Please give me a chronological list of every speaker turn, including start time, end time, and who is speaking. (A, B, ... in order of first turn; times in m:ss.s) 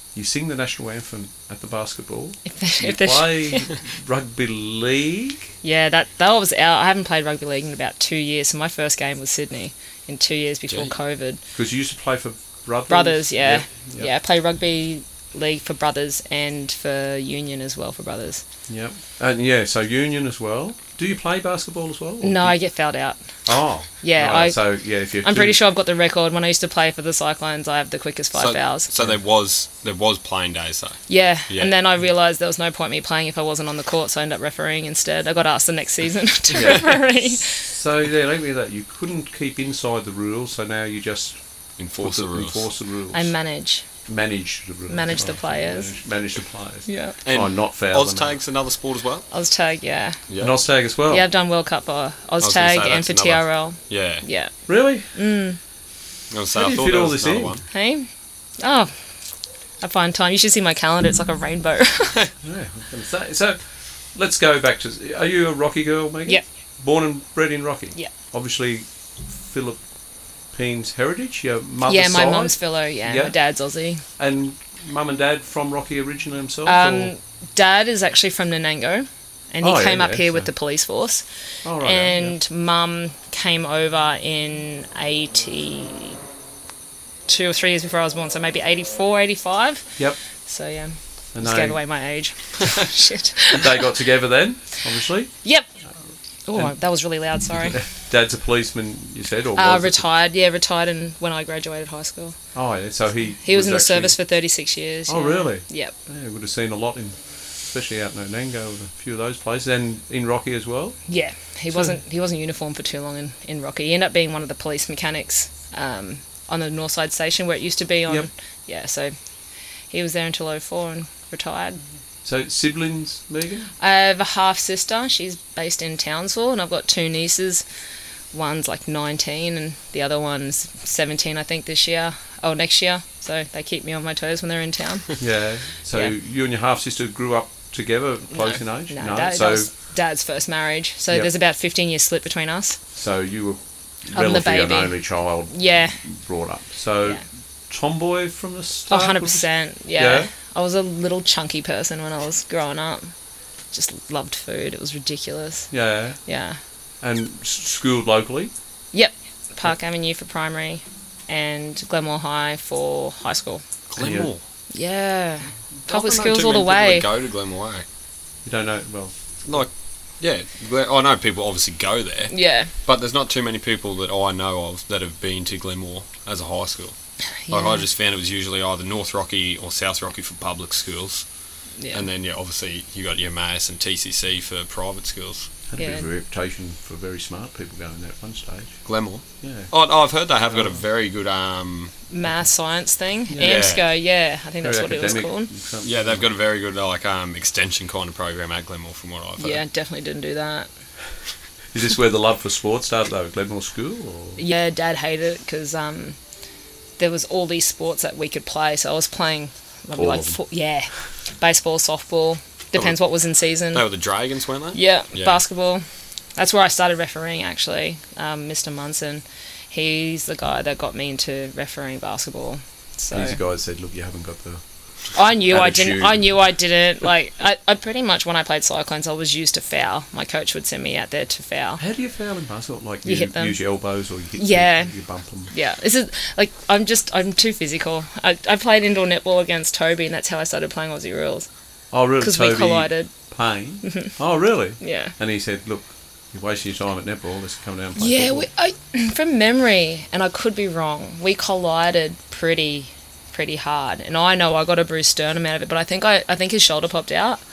0:00.1-0:05.5 A
0:02.4-0:03.7 B
0:05.6-0:11.4 B
0:11.5-0:14.1 A
0:12.9-0:18.4 B
0:18.7-0:22.5 A
0:22.2-0:23.2 B
0:23.4-0:25.6 A
0:24.0-0:24.7 B
0:25.2-0:28.9 B
0:28.3-0:31.7 C
0:31.1-0:37.7 B
0:36.5-0:41.4 A
0:41.8-0:42.6 C
0:42.0-0:43.3 A
0:43.1-0:43.8 B
0:44.0-0:48.4 A
0:44.9-0:45.9 B
0:46.9-0:47.2 B
0:47.2-0:49.2 C
0:49.3-0:50.2 B
0:50.3-0:50.6 C
0:50.4-0:51.2 A
0:51.1-0:54.5 B
0:52.4-0:54.2 C
0:54.7-0:55.1 A
0:55.1-0:55.6 B
0:56.3-0:57.6 C
0:56.5-0:57.6 A
0:57.7-0:59.0 B
0:59.8-1:02.3 B
1:02.4-1:03.6 A
1:04.1-1:09.8 A
1:10.5-1:13.4 A
1:11.8-1:14.0 B
1:14.2-1:17.1 A
1:16.6-1:21.2 B
1:19.6-1:20.5 A
1:21.6-1:22.4 A
1:21.8-1:26.2 B
1:27.3-1:33.7 B
1:31.3-1:31.8 A
1:33.5-1:35.3 A
1:36.4-1:37.8 B
1:37.5-1:40.0 A
1:39.6-1:42.4 B
1:42.5-1:44.2 A
1:43.4-1:45.9 B
1:45.1-1:51.0 A
1:51.1-1:59.1 B
1:51.7-1:52.0 A
1:59.9-2:01.8 B
2:02.2-2:03.7 A
2:03.8-2:07.6 B
2:08.3-2:15.1 B
2:15.2-2:19.7 A
2:18.3-2:22.8 B
2:22.9-2:30.3 A
2:24.1-2:25.0 B
2:25.5-2:26.0 B
2:28.9-2:33.1 B
2:33.7-2:35.7 B
2:35.7-2:36.2 A
2:36.2-2:36.6 B
2:37.0-2:38.5 A
2:38.9-2:43.6 B
2:43.9-2:44.4 C
2:44.0-2:44.3 A
2:44.7-2:47.1 B
2:45.9-2:47.8 C
2:48.4-2:49.6 A
2:49.4-2:56.9 C
2:52.3-2:52.7 B
2:57.5-2:57.8 B
2:57.5-3:01.2 C
3:01.8-3:02.0 B
3:01.9-3:05.5 C
3:05.7-3:08.8 A
3:05.8-3:06.0 B
3:08.8-3:11.9 C
3:09.4-3:09.7 A
3:10.5-3:10.8 A
3:12.1-3:15.5 B
3:13.3-3:13.7 A
3:13.4-3:13.8 C
3:14.6-3:16.2 A
3:15.8-3:19.6 C
3:19.4-3:20.7 B
3:21.7-3:24.4 A
3:24.4-3:26.2 B
3:27.0-3:33.8 B
3:29.9-3:30.4 A
3:33.7-3:35.4 C
3:34.7-3:35.8 B
3:36.4-3:43.4 B
3:43.1-3:44.6 A
3:45.1-3:51.8 B
3:45.5-3:46.4 A
3:51.8-3:55.5 A
3:53.0-3:53.6 B
3:54.4-3:54.9 B
3:55.5-4:01.5 B
4:01.9-4:08.5 A
4:02.2-4:03.1 B
4:03.8-4:04.1 B
4:04.8-4:05.1 B
4:08.0-4:17.4 B